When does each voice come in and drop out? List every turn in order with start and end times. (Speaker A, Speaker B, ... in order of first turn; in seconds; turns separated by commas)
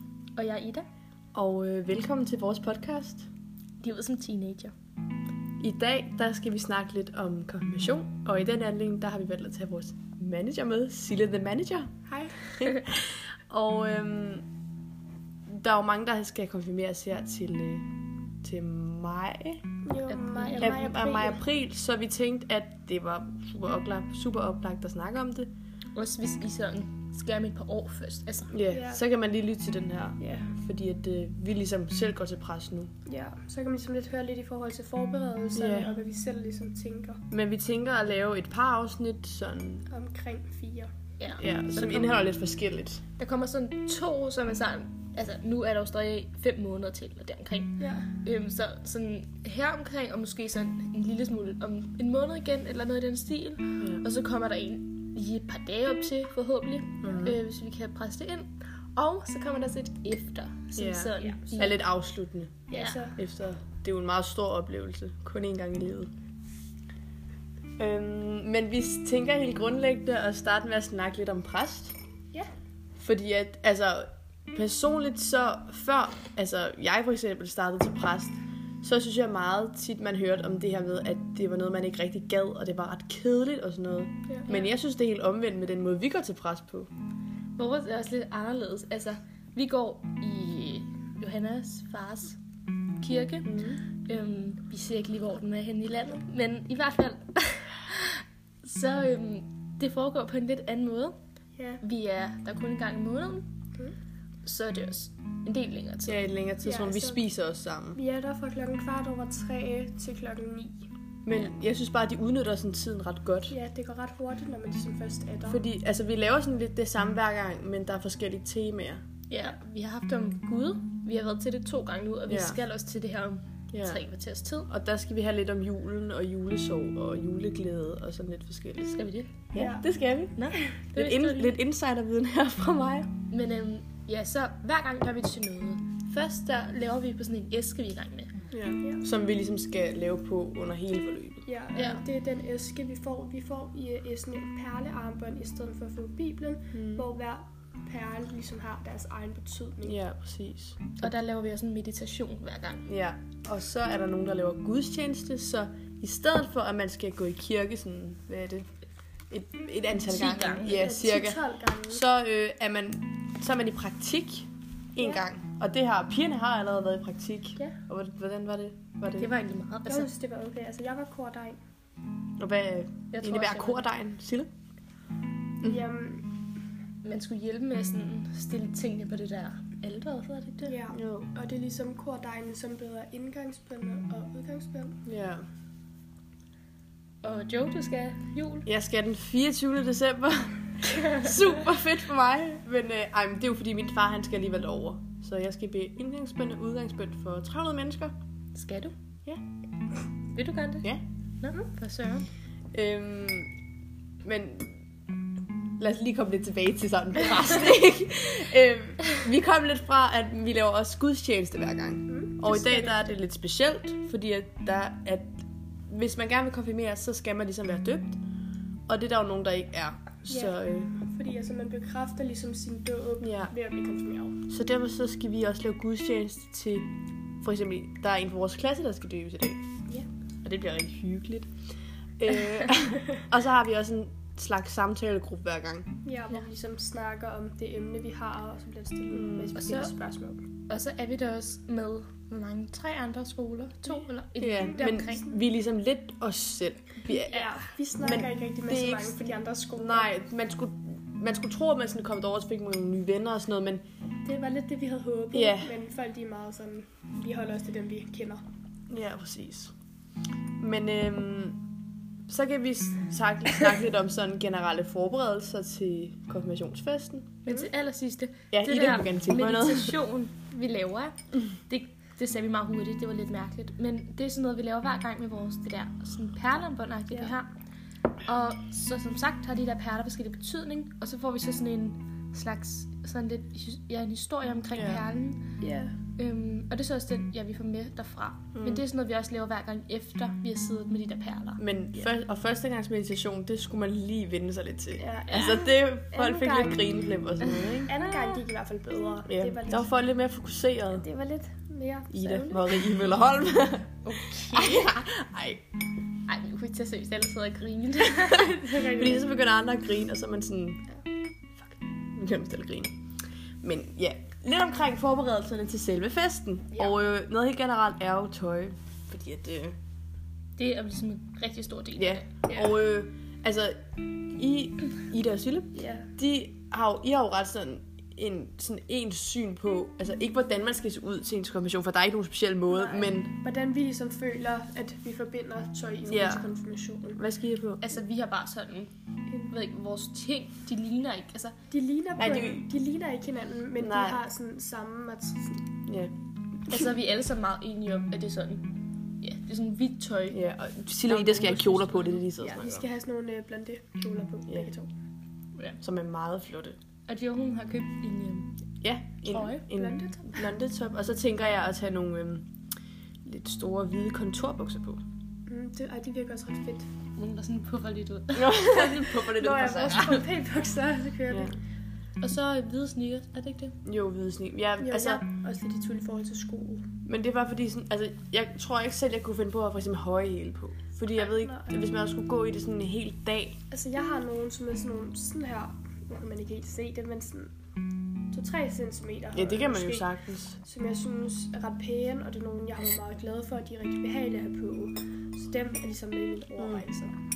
Speaker A: 0.4-0.9, Speaker B: 1.3-3.3, Speaker A: 3.8-4.7, Speaker B: 5.6-14.5, Speaker C: 12.1-12.4, Speaker B: 15.5-17.9, Speaker B: 18.4-19.6, Speaker C: 19.9-21.4, Speaker A: 20.1-20.9, Speaker B: 20.6-25.5, Speaker A: 25.9-28.6, Speaker B: 28.5-32.9, Speaker C: 28.7-29.0, Speaker C: 30.2-30.5, Speaker C: 33.1-37.2, Speaker B: 35.5-36.0, Speaker B: 37.3-39.9, Speaker C: 39.9-41.4, Speaker A: 41.2-42.1, Speaker B: 41.4-43.0, Speaker A: 43.2-61.8, Speaker C: 47.8-48.1, Speaker B: 53.8-54.0, Speaker B: 57.0-57.4, Speaker B: 60.8-66.1, Speaker C: 61.2-61.7, Speaker C: 62.7-63.2, Speaker A: 62.7-63.0, Speaker B: 67.8-72.0, Speaker B: 73.0-86.9, Speaker A: 87.6-92.4, Speaker A: 93.0-101.2, Speaker B: 93.5-93.8, Speaker C: 101.6-101.8, Speaker A: 101.8-103.5, Speaker A: 104.4-106.2, Speaker B: 106.1-108.0, Speaker C: 106.6-107.3, Speaker C: 108.0-110.8, Speaker B: 111.2-113.5, Speaker C: 113.5-115.6, Speaker B: 115.5-119.0, Speaker A: 119.3-124.7, Speaker B: 122.3-122.6, Speaker B: 123.7-124.0, Speaker B: 124.7-129.0, Speaker A: 128.9-129.3, Speaker B: 129.5-130.4, Speaker C: 129.6-129.9, Speaker A: 130.4-131.6, Speaker B: 130.9-133.1, Speaker A: 133.3-138.3, Speaker B: 138.5-141.4, Speaker C: 141.5-150.0, Speaker A: 141.8-142.0, Speaker B: 146.7-147.1, Speaker B: 149.8-151.1, Speaker A: 150.9-152.9, Speaker B: 152.9-158.7, Speaker B: 159.3-169.3, Speaker A: 160.1-160.8, Speaker C: 160.6-162.0, Speaker C: 165.0-165.2, Speaker A: 169.2-170.1, Speaker C: 169.9-171.6, Speaker B: 172.4-174.5, Speaker A: 173.1-173.9, Speaker C: 175.6-176.3, Speaker A: 177.0-180.8, Speaker C: 180.7-185.0, Speaker B: 180.9-181.3, Speaker B: 185.1-185.4, Speaker A: 187.2-188.7, Speaker B: 188.7-198.1, Speaker A: 198.5-198.9, Speaker A: 200.3-202.3, Speaker B: 202.7-203.5, Speaker B: 204.2-204.8, Speaker B: 205.8-218.2, Speaker C: 212.1-213.1, Speaker B: 218.9-220.9, Speaker C: 220.3-224.4, Speaker B: 223.2-223.5, Speaker B: 224.5-229.6, Speaker B: 230.4-231.5, Speaker B: 232.2-235.9, Speaker C: 236.0-240.4, Speaker B: 239.1-239.6, Speaker A: 239.6-239.9, Speaker A: 240.7-245.3, Speaker B: 244.4-253.8, Speaker C: 244.7-245.1, Speaker A: 247.1-247.6, Speaker C: 247.2-250.1, Speaker C: 254.2-258.4, Speaker B: 255.3-255.7, Speaker B: 258.9-259.7, Speaker B: 260.6-261.7, Speaker B: 262.3-267.4, Speaker A: 267.4-277.5, Speaker B: 268.5-270.0, Speaker A: 278.2-285.4, Speaker B: 284.7-285.0, Speaker C: 285.6-286.0, Speaker A: 286.2-291.6, Speaker B: 288.6-288.9, Speaker B: 291.6-297.9, Speaker C: 295.0-296.9, Speaker A: 297.6-298.4, Speaker C: 297.9-299.9, Speaker B: 299.3-301.1, Speaker A: 301.1-301.5, Speaker C: 301.6-302.2, Speaker B: 302.1-305.6, Speaker A: 302.2-302.7, Speaker A: 304.1-305.0, Speaker A: 306.3-309.0, Speaker C: 308.6-309.3, Speaker B: 308.8-310.9, Speaker B: 312.1-312.9, Speaker B: 313.6-319.8, Speaker A: 320.6-322.7, Speaker B: 322.0-323.8, Speaker B: 324.3-333.3, Speaker C: 325.7-326.1, Speaker C: 332.7-337.2, Speaker B: 336.1-336.5, Speaker B: 337.1-337.8, Speaker A: 337.8-338.9, Speaker A: 339.4-341.6, Speaker C: 341.7-345.6, Speaker B: 342.2-342.6, Speaker B: 343.8-344.2, Speaker B: 345.9-346.1, Speaker A: 346.7-350.4, Speaker B: 350.3-352.9, Speaker A: 351.0-352.3, Speaker C: 352.4-354.9, Speaker B: 355.8-356.8, Speaker A: 357.1-358.5, Speaker B: 358.8-362.5, Speaker A: 359.3-359.6, Speaker C: 359.7-360.4, Speaker B: 363.2-365.0, Speaker C: 365.5-366.9, Speaker A: 367.2-370.2, Speaker B: 368.4-370.2, Speaker C: 369.4-371.5, Speaker A: 372.2-373.8, Speaker B: 373.9-375.2, Speaker C: 374.8-376.9, Speaker B: 377.1-383.6, Speaker C: 381.2-381.8, Speaker C: 383.7-387.5, Speaker C: 388.3-390.1, Speaker B: 389.3-390.6, Speaker C: 390.6-397.1, Speaker B: 396.6-396.8